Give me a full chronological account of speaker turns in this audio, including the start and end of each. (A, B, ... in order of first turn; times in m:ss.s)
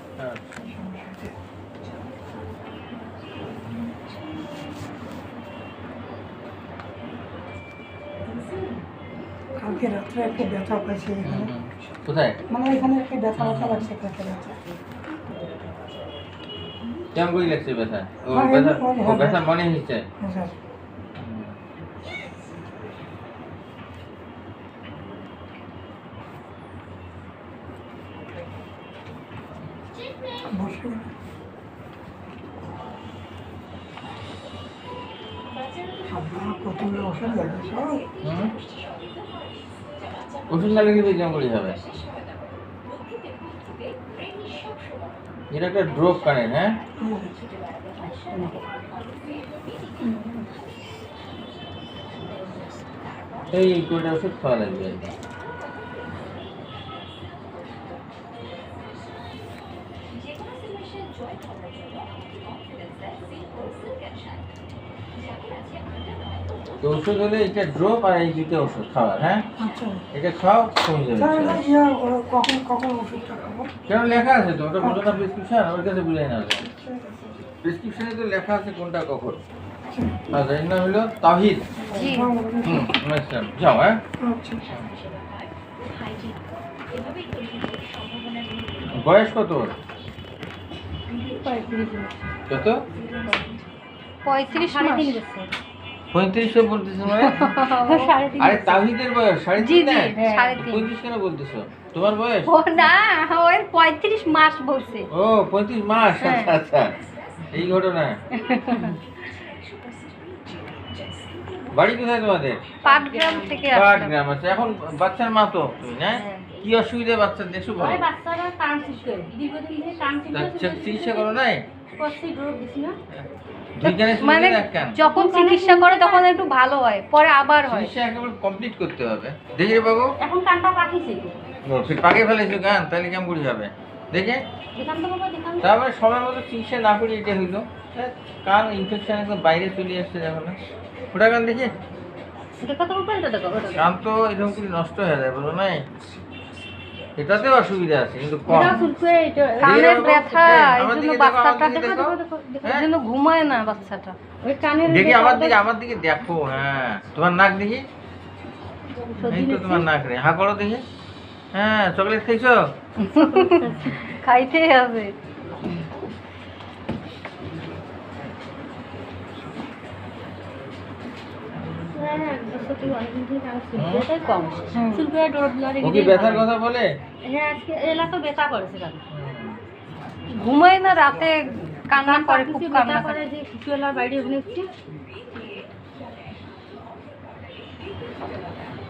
0:00.2-0:00.6 A
0:00.6-0:01.3 B
0:09.6-0:11.5 B
0:11.2-0:12.4 A
0:12.5-0:14.6 B
0:13.4-0:13.9 A
0:17.2-0:20.0 A
0:18.3-0:19.4 B
0:20.2-0:20.5 B
0:21.2-0:21.6 A
0:30.5-0:31.1 B
0:36.1-0:38.1 B
0:38.2-0:38.6 A
0:40.5-0:41.8 A
0:45.5-0:46.7 A
0:47.0-0:47.3 B
0:48.0-0:48.6 C
0:50.0-0:50.4 C
0:53.5-0:55.2 A
1:06.8-1:09.4 A
1:09.6-1:10.0 B
1:10.1-1:11.6 A
1:11.2-1:13.7 B
1:13.9-1:16.7 A
1:14.8-1:15.2 B
1:16.6-1:17.4 B
1:17.6-1:19.4 A
1:19.9-1:20.3 B
1:20.3-1:21.8 A
1:21.9-1:22.3 D
1:22.0-1:22.9 B
1:22.6-1:24.0 A
1:24.2-1:24.7 B
1:28.9-1:29.7 A
1:31.3-1:32.1 C
1:32.5-1:32.8 A
1:34.2-1:35.2 D
1:34.6-1:35.5 C
1:36.1-1:37.6 A
1:37.1-1:38.1 D
1:37.8-1:38.8 C
1:38.4-1:42.5 A
1:39.6-1:40.9 D
1:40.1-1:40.6 C
1:42.5-1:45.1 D
1:45.1-1:46.9 A
1:46.1-1:46.5 D
1:47.5-1:48.2 A
1:48.4-1:49.0 D
1:48.7-1:49.0 C
1:51.7-1:52.6 A
1:52.8-1:54.1 D
1:52.9-1:53.7 C
1:53.7-1:58.0 A
1:56.1-1:56.5 D
1:57.8-2:01.3 C
2:00.3-2:01.6 A
2:02.0-2:03.0 C
2:03.8-2:05.0 A
2:03.8-2:07.9 D
2:05.0-2:06.5 C
2:07.6-2:10.1 A
2:10.2-2:11.4 C
2:11.6-2:14.4 A
2:14.8-2:15.7 C
2:15.6-2:20.6 A
2:21.1-2:21.7 A
2:22.6-2:23.9 C
2:23.7-2:25.9 A
2:27.2-2:28.9 A
2:28.5-2:30.2 C
2:28.6-2:28.9 D
2:29.6-2:32.9 A
2:29.6-2:32.1 D
2:31.7-2:32.7 C
2:32.6-2:34.2 D
2:34.4-2:35.6 C
2:34.9-2:37.8 A
2:39.2-2:39.9 C
2:39.3-2:40.8 A
2:41.5-2:42.6 A
2:43.0-2:45.1 D
2:43.2-2:44.0 C
2:43.7-2:44.0 A
2:51.9-2:56.5 C
2:53.8-2:54.1 A
2:54.7-2:55.0 D
2:55.8-2:56.9 A
2:57.2-2:59.0 C
2:59.1-2:59.6 A
3:00.3-3:03.2 D
3:02.0-3:04.7 C